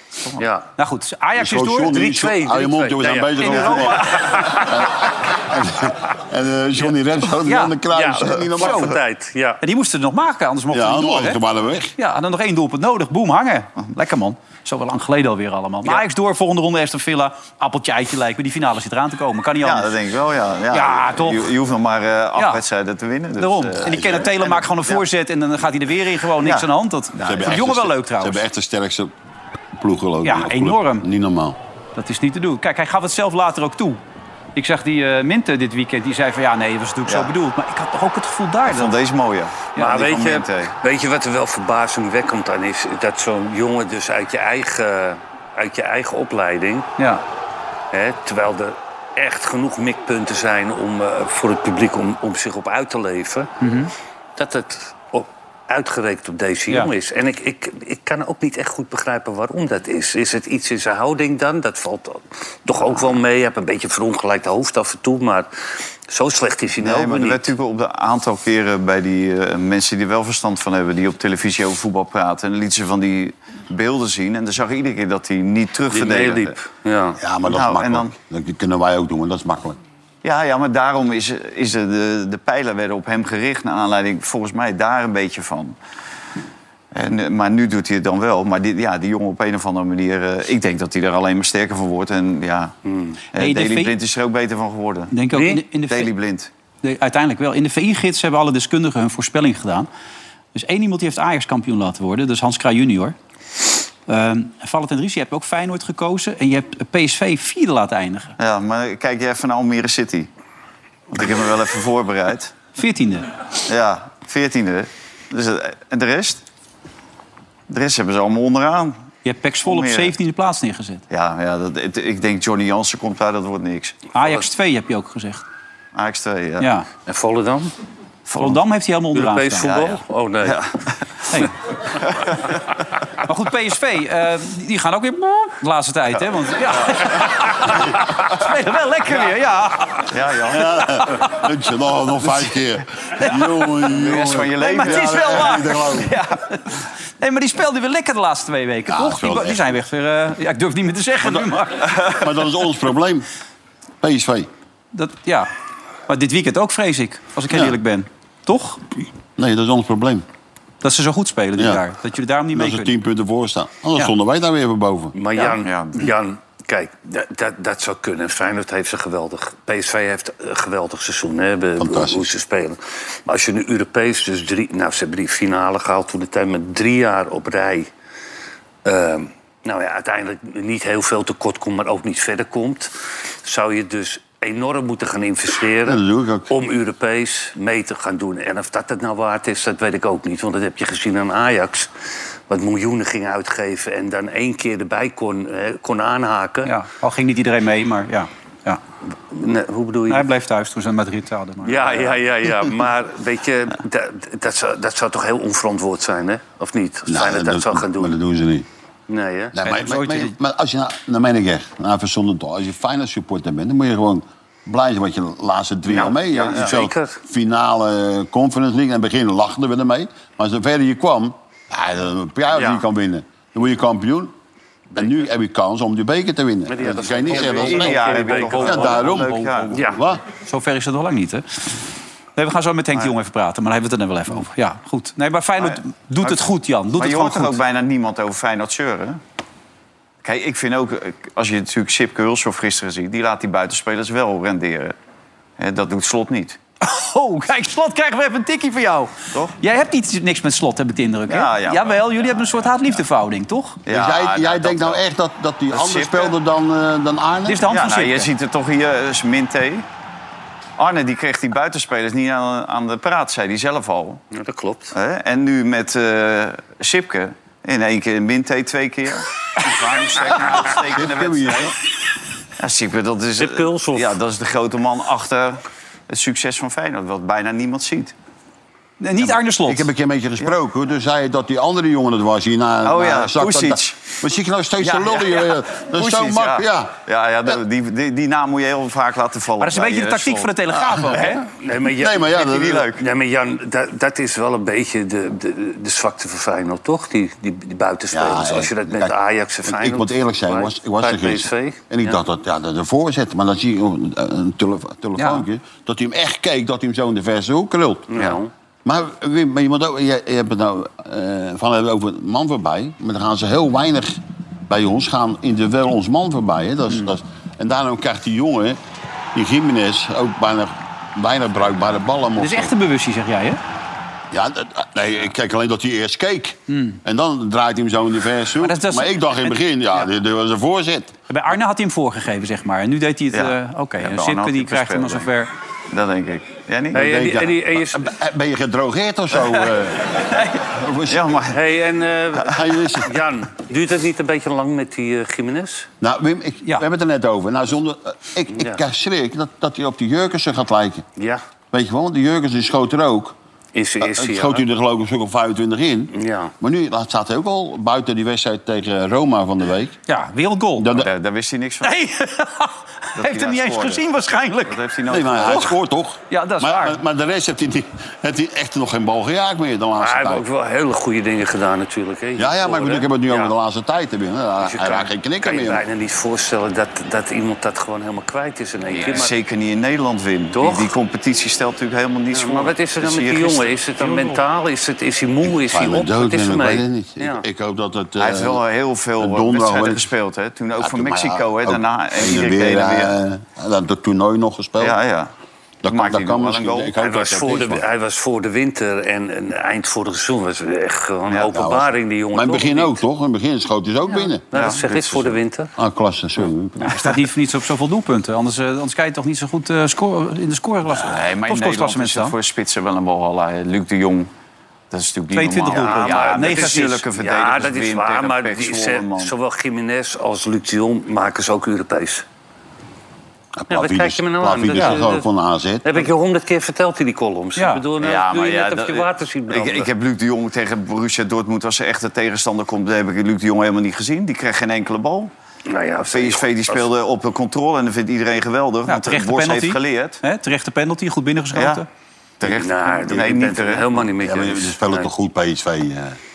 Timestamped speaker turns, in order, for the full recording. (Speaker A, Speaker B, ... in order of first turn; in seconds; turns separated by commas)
Speaker A: 0.4-0.7, Speaker B: 0.8-2.0, Speaker C: 1.4-8.9, Speaker A: 1.8-4.6, Speaker B: 3.4-4.7, Speaker B: 7.4-7.8, Speaker A: 7.9-9.6, Speaker B: 8.6-8.8, Speaker B: 9.6-11.4, Speaker C: 10.7-11.9, Speaker B: 12.0-20.0, Speaker D: 19.6-25.0, Speaker B: 20.7-21.6, Speaker B: 22.4-22.6, Speaker B: 23.4-28.4, Speaker C: 23.9-24.3, Speaker D: 26.4-27.5, Speaker C: 27.2-29.1, Speaker C: 29.8-31.6, Speaker B: 30.2-31.1, Speaker B: 32.0-34.0, Speaker B: 34.5-39.0, Speaker D: 37.1-37.3, Speaker D: 38.7-40.7, Speaker A: 39.8-46.9, Speaker A: 47.9-53.6, Speaker B: 53.6-53.9, Speaker A: 54.4-65.5, Speaker A: 66.1-67.5, Speaker D: 66.8-76.5, Speaker A: 75.9-77.2, Speaker C: 77.2-79.8, Speaker D: 77.5-78.1, Speaker D: 80.2-85.8, Speaker D: 86.9-92.8, Speaker A: 92.9-93.2, Speaker D: 93.3-95.1, Speaker B: 93.4-94.0, Speaker B: 95.1-96.1, Speaker A: 95.3-95.6, Speaker D: 95.9-96.5, Speaker B: 96.8-99.9, Speaker B: 100.5-103.2, Speaker B: 104.1-108.3, Speaker D: 108.4-110.3, Speaker D: 111.1-112.6, Speaker B: 112.8-113.3, Speaker D: 113.7-116.4, Speaker D: 117.7-119.0, Speaker B: 119.2-121.0, Speaker D: 119.7-120.1, Speaker D: 121.1-124.1, Speaker B: 124.2-125.4, Speaker D: 126.0-126.7, Speaker B: 126.6-126.9, Speaker A: 127.1-127.7, Speaker D: 128.3-128.6, Speaker B: 128.4-129.9, Speaker A: 129.1-130.6, Speaker D: 130.4-131.4, Speaker D: 132.0-132.6, Speaker B: 133.2-140.1, Speaker D: 136.8-137.2, Speaker D: 140.1-140.8, Speaker C: 140.5-146.2, Speaker B: 143.2-143.9, Speaker D: 143.9-145.6, Speaker B: 144.6-152.1, Speaker C: 148.9-149.8, Speaker C: 151.2-153.3, Speaker C: 154.0-154.5, Speaker B: 154.9-155.5, Speaker B: 156.1-158.8, Speaker C: 157.5-157.8, Speaker C: 159.4-160.2, Speaker B: 160.8-162.9, Speaker C: 161.6-161.8, Speaker C: 162.5-165.2, Speaker A: 165.1-177.9, Speaker D: 165.6-166.1, Speaker C: 171.8-172.3, Speaker A: 178.8-182.9, Speaker A: 183.4-191.9, Speaker C: 185.9-186.5, Speaker A: 192.5-196.7, Speaker B: 196.7-198.8, Speaker A: 199.3-200.3, Speaker B: 200.1-202.1, Speaker A: 201.6-208.2, Speaker C: 207.1-208.7, Speaker A: 209.1-209.6, Speaker C: 209.5-224.3, Speaker B: 209.7-210.3, Speaker A: 215.9-217.2, Speaker C: 225.0-230.2, Speaker A: 226.7-229.1, Speaker D: 227.3-229.9, Speaker B: 229.1-229.6, Speaker A: 229.7-230.0, Speaker B: 230.4-231.4, Speaker B: 232.4-237.6, Speaker D: 235.6-236.4, Speaker D: 237.0-239.2, Speaker D: 240.2-244.9, Speaker D: 245.6-246.6, Speaker B: 246.8-253.8, Speaker D: 251.3-252.7, Speaker D: 253.9-255.0, Speaker C: 253.9-257.7, Speaker D: 255.7-256.4, Speaker B: 257.5-258.3, Speaker D: 257.7-259.9, Speaker D: 260.8-264.2, Speaker A: 264.3-264.9, Speaker D: 264.9-271.7, Speaker C: 270.7-271.8, Speaker D: 272.6-278.1, Speaker A: 273.4-274.2, Speaker B: 279.0-279.9, Speaker C: 279.6-286.9, Speaker D: 282.8-284.0, Speaker D: 284.8-290.5, Speaker B: 289.6-291.4, Speaker D: 291.1-291.4, Speaker A: 291.6-302.2, Speaker C: 292.0-292.9, Speaker D: 292.4-293.0, Speaker C: 298.1-308.3, Speaker B: 305.2-305.5, Speaker A: 308.1-308.5, Speaker C: 308.9-318.8, Speaker C: 319.3-322.7, Speaker B: 322.4-323.6, Speaker C: 324.3-331.1, Speaker B: 326.7-327.0, Speaker B: 328.6-329.6, Speaker B: 331.3-335.5, Speaker D: 333.3-335.3, Speaker D: 335.9-337.2, Speaker A: 336.9-338.1, Speaker C: 336.9-340.1, Speaker C: 340.7-341.4, Speaker D: 341.1-341.6, Speaker A: 341.5-345.9, Speaker C: 342.4-343.1, Speaker C: 346.0-351.1, Speaker A: 348.5-348.8, Speaker A: 351.2-351.4, Speaker C: 351.7-353.4, Speaker A: 353.7-354.6, Speaker C: 354.0-360.0, Speaker A: 356.1-356.5, Speaker B: 360.1-360.9, Speaker C: 360.8-361.1, Speaker D: 360.9-361.9, Speaker B: 361.8-364.9, Speaker D: 363.2-364.0, Speaker D: 364.6-365.8, Speaker C: 365.1-370.5, Speaker B: 365.5-365.7, Speaker B: 366.3-367.0, Speaker A: 370.0-373.5, Speaker C: 372.4-375.8, Speaker A: 374.6-379.3, Speaker D: 378.9-383.7, Speaker A: 380.5-380.9, Speaker A: 382.3-387.4, Speaker C: 385.4-388.6, Speaker D: 388.2-393.1, Speaker C: 389.2-390.1, Speaker C: 390.8-395.0, Speaker D: 394.8-395.3, Speaker C: 395.8-397.9, Speaker D: 395.9-397.0, Speaker A: 397.0-403.0, Speaker C: 401.5-407.1, Speaker A: 404.5-405.7, Speaker D: 404.5-404.8, Speaker B: 406.8-412.4, Speaker D: 411.0-414.3, Speaker D: 414.9-419.3, Speaker B: 415.3-417.0, Speaker A: 415.7-422.2, Speaker C: 423.6-426.1, Speaker A: 423.7-425.3, Speaker A: 425.8-429.9, Speaker B: 427.6-427.8, Speaker D: 428.0-435.3, Speaker A: 435.7-436.9, Speaker D: 436.1-440.2, Speaker B: 438.9-441.9, Speaker D: 441.5-441.8, Speaker D: 442.4-444.1, Speaker A: 442.4-445.1, Speaker C: 444.2-446.2